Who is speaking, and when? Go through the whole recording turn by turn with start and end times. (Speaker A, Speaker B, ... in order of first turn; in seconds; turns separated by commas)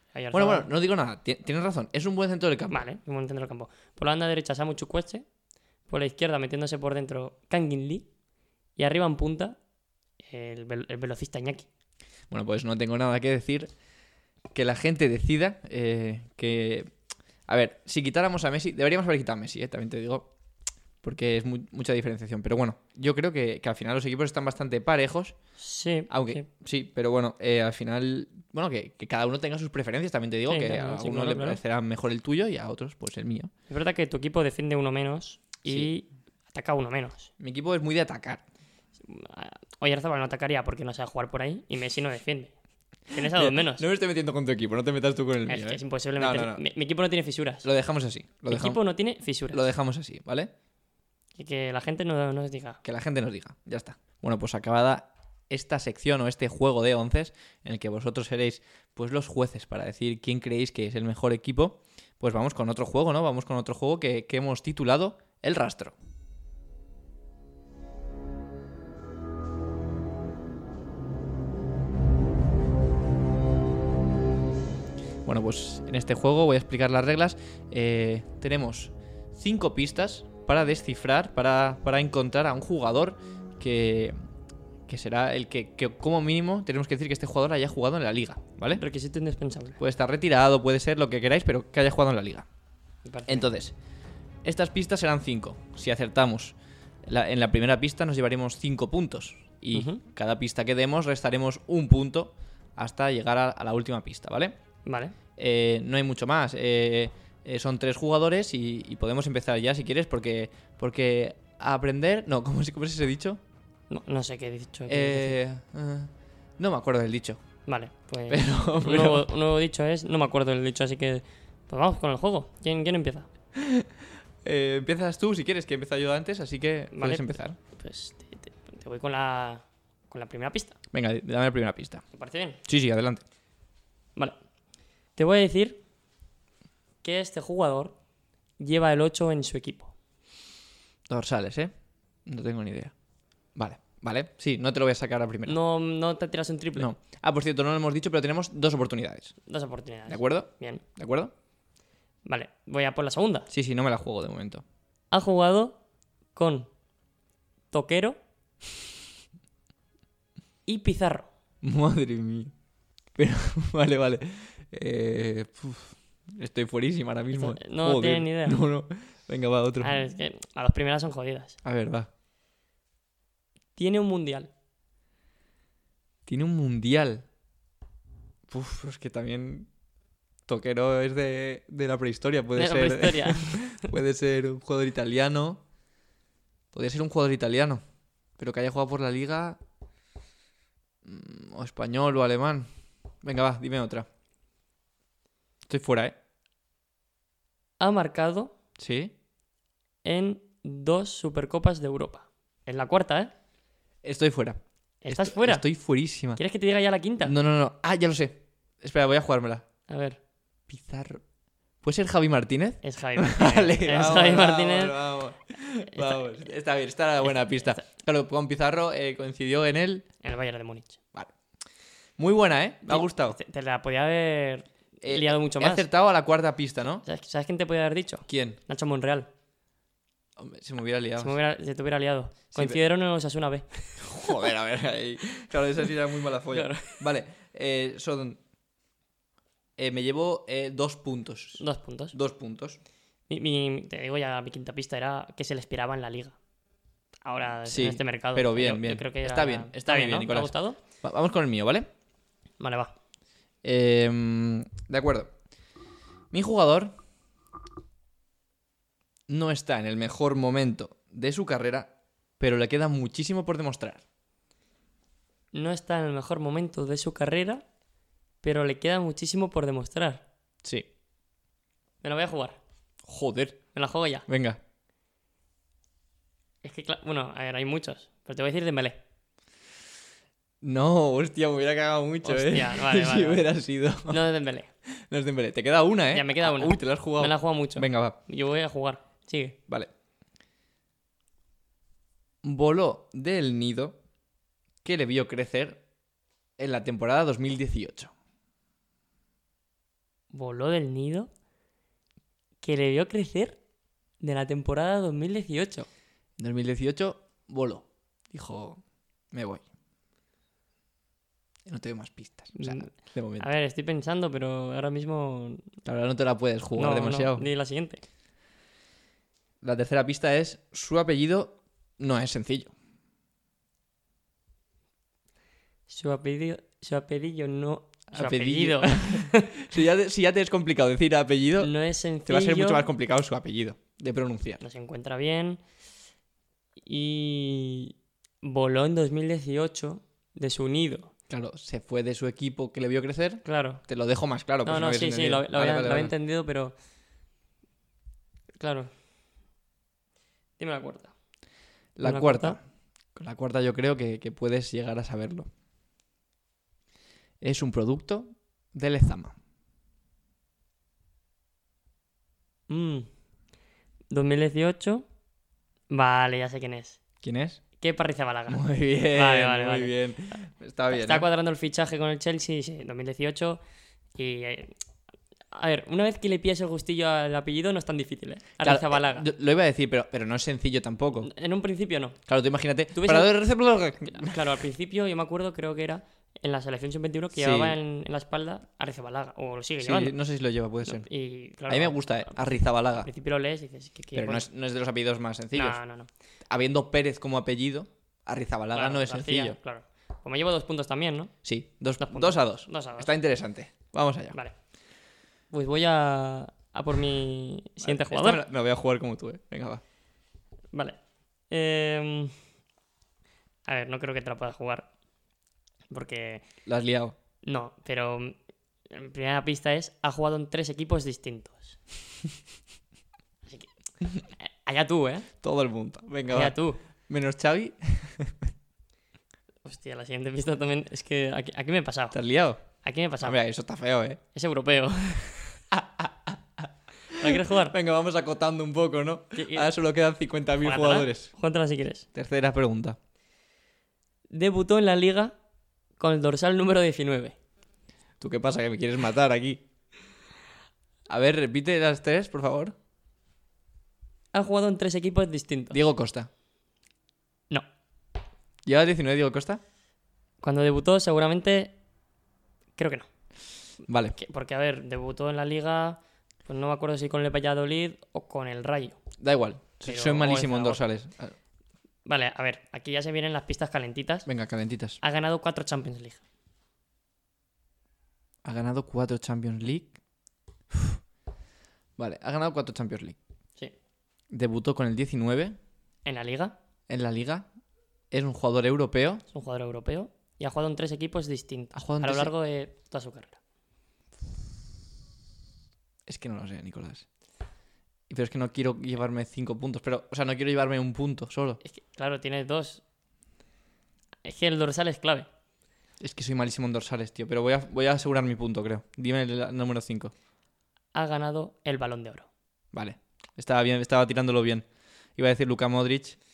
Speaker A: 0.1-0.7, Speaker B: 0.3-2.8, Speaker A: 2.7-5.2, Speaker A: 5.9-8.1, Speaker A: 8.8-9.6, Speaker A: 10.2-11.7, Speaker B: 12.3-13.7, Speaker B: 14.5-16.9, Speaker B: 17.5-20.3, Speaker B: 21.0-25.4, Speaker A: 25.6-26.4, Speaker B: 26.1-33.5, Speaker A: 30.5-31.6, Speaker A: 33.7-37.3, Speaker B: 35.6-35.9, Speaker B: 37.4-38.4, Speaker A: 39.0-42.5, Speaker A: 43.1-43.9, Speaker B: 43.2-46.6, Speaker A: 45.5-47.7, Speaker B: 47.6-48.8, Speaker A: 48.5-49.6, Speaker B: 49.5-50.5, Speaker A: 51.4-52.8, Speaker B: 52.8-65.9, Speaker B: 75.2-84.1, Speaker B: 84.9-88.8, Speaker A: 88.7-89.8, Speaker B: 89.8-92.5, Speaker A: 93.0-93.5, Speaker B: 93.3-93.7, Speaker B: 94.4-104.5, Speaker A: 99.7-100.0, Speaker A: 104.8-105.2, Speaker B: 105.4-113.4, Speaker A: 113.9-115.4, Speaker B: 114.9-117.4, Speaker A: 117.7-123.3, Speaker B: 118.3-119.3, Speaker B: 123.5-123.9, Speaker B: 124.4-127.6, Speaker A: 126.9-130.8, Speaker B: 130.9-132.0, Speaker A: 132.1-132.6, Speaker B: 132.7-133.2, Speaker A: 135.2-135.8, Speaker A: 137.0-137.9, Speaker A: 138.6-139.9, Speaker B: 141.1-141.7, Speaker B: 142.2-142.9, Speaker B: 143.6-145.6, Speaker A: 145.5-146.9, Speaker B: 146.8-149.3, Speaker A: 149.4-150.8, Speaker B: 150.1-151.3, Speaker A: 152.2-153.5, Speaker B: 153.5-154.6, Speaker A: 155.1-155.8, Speaker A: 156.3-156.7, Speaker A: 157.7-158.2, Speaker A: 160.7-161.3, Speaker B: 161.6-162.5, Speaker B: 163.1-170.1, Speaker A: 167.3-168.6, Speaker A: 169.8-171.6, Speaker B: 171.6-172.1, Speaker A: 173.8-174.5, Speaker B: 176.3-177.2, Speaker B: 178.5-179.7, Speaker B: 180.5-185.6, Speaker A: 182.5-183.9, Speaker B: 186.7-187.8, Speaker B: 188.4-189.6, Speaker B: 191.0-192.7, Speaker B: 193.2-194.1, Speaker B: 195.7-196.2, Speaker A: 197.8-198.5, Speaker B: 198.8-199.1, Speaker A: 200.0-203.3, Speaker B: 204.0-206.4, Speaker A: 205.0-205.6, Speaker A: 206.4-207.4, Speaker B: 207.2-209.6, Speaker A: 209.9-210.2, Speaker B: 210.7-211.2, Speaker B: 211.8-220.0, Speaker A: 212.8-215.0, Speaker A: 215.9-216.3, Speaker A: 217.2-217.8, Speaker A: 220.2-221.0, Speaker B: 222.2-223.4, Speaker A: 222.9-225.9, Speaker B: 225.0-227.0, Speaker A: 227.0-229.3, Speaker B: 228.3-228.6, Speaker B: 230.4-231.4, Speaker A: 231.2-234.4, Speaker B: 232.5-232.8, Speaker B: 234.0-238.4, Speaker A: 236.5-236.9, Speaker B: 239.8-242.8, Speaker A: 241.6-242.2, Speaker A: 243.3-246.4, Speaker A: 247.2-250.8, Speaker B: 247.7-251.9, Speaker A: 252.6-252.9, Speaker B: 253.6-255.3, Speaker B: 256.3-256.9, Speaker B: 259.3-264.0, Speaker A: 265.5-267.6, Speaker A: 268.4-270.2, Speaker A: 272.0-272.6, Speaker B: 273.1-273.6, Speaker A: 273.7-274.2, Speaker B: 274.3-274.6, Speaker A: 276.6-279.0, Speaker B: 280.6-284.2, Speaker A: 282.2-283.4, Speaker A: 284.1-284.7, Speaker B: 284.9-288.2, Speaker A: 286.1-289.6, Speaker B: 292.4-294.0, Speaker B: 294.8-295.8, Speaker B: 296.6-298.1, Speaker A: 300.3-301.3, Speaker A: 302.6-303.6, Speaker A: 304.2-305.9, Speaker B: 306.4-308.8, Speaker B: 309.3-309.6, Speaker B: 311.6-313.5, Speaker A: 312.5-312.9, Speaker A: 313.4-315.6, Speaker B: 315.9-317.5, Speaker A: 316.8-318.0, Speaker B: 319.6-322.7, Speaker A: 325.9-329.5, Speaker B: 328.1-331.7, Speaker A: 331.6-332.9, Speaker B: 332.2-334.6, Speaker A: 334.6-335.6, Speaker A: 336.8-341.1, Speaker B: 341.3-346.1, Speaker A: 343.4-343.8, Speaker A: 344.6-346.7, Speaker A: 348.6-348.9, Speaker A: 350.6-351.1, Speaker B: 351.9-352.6, Speaker A: 352.0-352.6, Speaker B: 353.1-355.5, Speaker B: 357.4-359.4, Speaker A: 362.7-363.1, Speaker A: 364.1-365.1, Speaker A: 365.9-367.0, Speaker B: 367.2-367.6, Speaker A: 367.8-370.0, Speaker B: 368.5-371.3, Speaker A: 370.9-373.6, Speaker A: 374.1-374.8, Speaker A: 375.5-379.3, Speaker B: 378.6-381.3, Speaker A: 381.2-382.2, Speaker B: 382.3-384.5, Speaker A: 382.9-383.3, Speaker A: 384.1-390.1, Speaker B: 387.4-387.8, Speaker B: 389.8-391.1, Speaker A: 390.9-394.4, Speaker B: 391.7-393.1, Speaker B: 394.1-395.8, Speaker A: 395.5-396.1, Speaker B: 396.5-399.6, Speaker A: 398.7-401.3, Speaker B: 401.4-404.4, Speaker A: 402.0-403.1, Speaker A: 405.5-408.4, Speaker B: 407.8-409.8, Speaker A: 410.7-411.0, Speaker A: 411.5-412.3, Speaker A: 413.6-414.9, Speaker A: 415.9-416.4, Speaker B: 416.6-417.1, Speaker A: 417.4-418.4, Speaker A: 418.9-421.8, Speaker A: 423.4-423.7, Speaker A: 424.3-425.3, Speaker B: 425.4-426.6, Speaker A: 426.3-426.8, Speaker B: 427.1-428.3, Speaker A: 429.6-432.2, Speaker B: 432.1-432.6, Speaker A: 432.8-433.4, Speaker B: 433.2-434.2, Speaker A: 434.3-435.4, Speaker B: 435.7-441.3, Speaker A: 437.2-437.8, Speaker A: 439.4-439.7, Speaker A: 440.6-442.1, Speaker B: 442.1-443.0, Speaker A: 444.3-445.4, Speaker A: 446.0-447.4, Speaker B: 448.2-449.6, Speaker B: 451.1-452.7, Speaker A: 454.3-455.8, Speaker B: 455.7-456.3, Speaker B: 458.6-459.6, Speaker A: 460.4-461.7, Speaker A: 462.8-463.1, Speaker B: 463.9-464.2, Speaker A: 464.2-469.0, Speaker B: 469.2-471.4, Speaker A: 469.9-470.8, Speaker A: 472.0-474.3, Speaker B: 474.2-475.0, Speaker A: 475.0-476.2, Speaker B: 478.4-479.9, Speaker B: 480.7-481.0, Speaker B: 482.0-483.2, Speaker B: 484.3-485.6, Speaker A: 486.0-486.6, Speaker B: 486.9-487.5, Speaker B: 488.1-489.2, Speaker A: 489.3-493.4, Speaker B: 491.7-492.3, Speaker B: 496.1-497.1, Speaker B: 498.1-501.6, Speaker A: 501.6-502.8, Speaker A: 504.2-505.3, Speaker B: 506.0-510.1, Speaker A: 510.9-512.3, Speaker B: 512.7-514.6, Speaker B: 515.2-516.2